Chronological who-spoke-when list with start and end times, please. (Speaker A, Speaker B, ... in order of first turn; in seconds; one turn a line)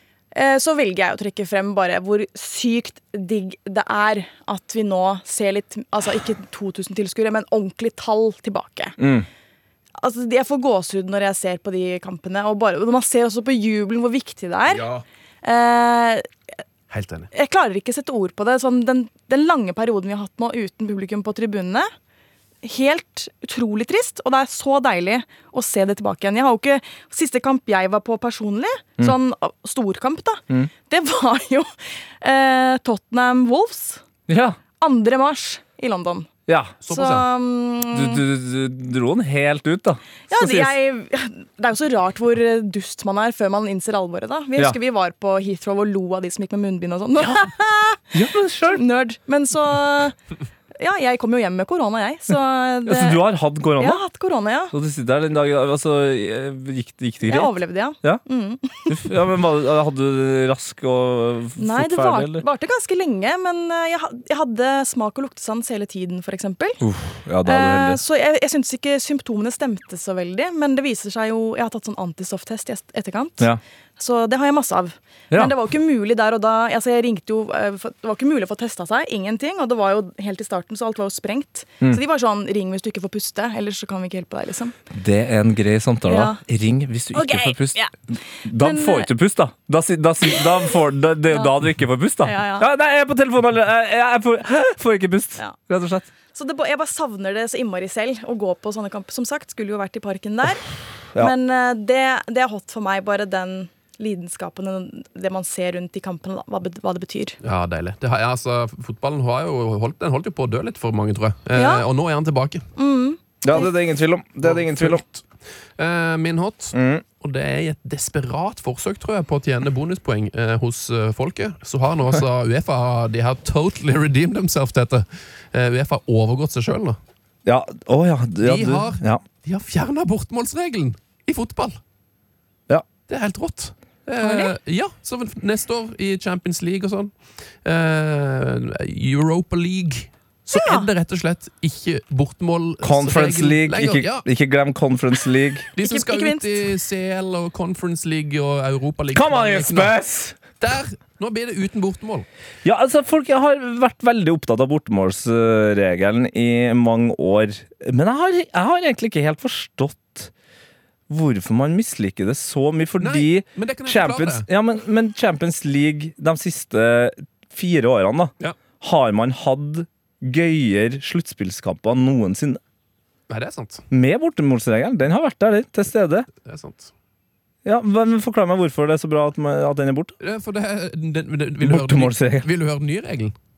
Speaker A: 0.3-9.0
Speaker B: 9.0-9.3
Speaker A: 10.0-14.9
Speaker C: 14.8-15.0
Speaker A: 15.4-16.3
Speaker C: 16.9-17.3
Speaker A: 17.3-21.9
Speaker A: 22.6-34.0
Speaker B: 34.3-34.6
Speaker A: 34.8-36.3
Speaker B: 36.5-36.8
Speaker C: 36.8-37.3
Speaker A: 36.9-38.2
Speaker B: 37.9-40.8
Speaker A: 40.3-48.1
Speaker B: 48.1-48.8
Speaker A: 48.7-50.2
Speaker A: 50.8-54.8
Speaker B: 52.9-54.0
Speaker B: 54.7-58.2
Speaker A: 57.2-59.0
Speaker B: 58.9-62.4
Speaker A: 61.6-66.8
Speaker B: 66.8-68.0
Speaker A: 67.5-73.5
Speaker A: 74.0-84.8
Speaker B: 84.9-96.1
Speaker A: 86.1-86.4
Speaker A: 87.1-89.1
Speaker A: 92.2-92.7
Speaker A: 96.3-100.7
Speaker A: 101.2-107.4
Speaker C: 107.4-112.7
Speaker A: 111.5-111.9
Speaker A: 112.8-113.7
Speaker B: 113.4-115.0
Speaker C: 114.4-115.2
Speaker C: 115.8-127.0
Speaker B: 116.7-117.0
Speaker B: 127.5-129.2
Speaker C: 128.4-131.8
Speaker C: 133.1-137.1
Speaker A: 134.2-134.5
Speaker C: 137.6-144.3
Speaker A: 140.5-140.9
Speaker B: 142.8-145.7
Speaker C: 145.7-150.0
Speaker A: 145.8-146.6
Speaker B: 149.1-150.4
Speaker C: 150.6-152.3
Speaker B: 152.6-160.3
Speaker B: 161.1-172.6
Speaker C: 163.0-164.5
Speaker C: 173.3-173.8
Speaker B: 173.9-176.3
Speaker C: 176.4-176.9
Speaker B: 177.7-180.2
Speaker C: 180.2-183.3
Speaker B: 181.6-182.5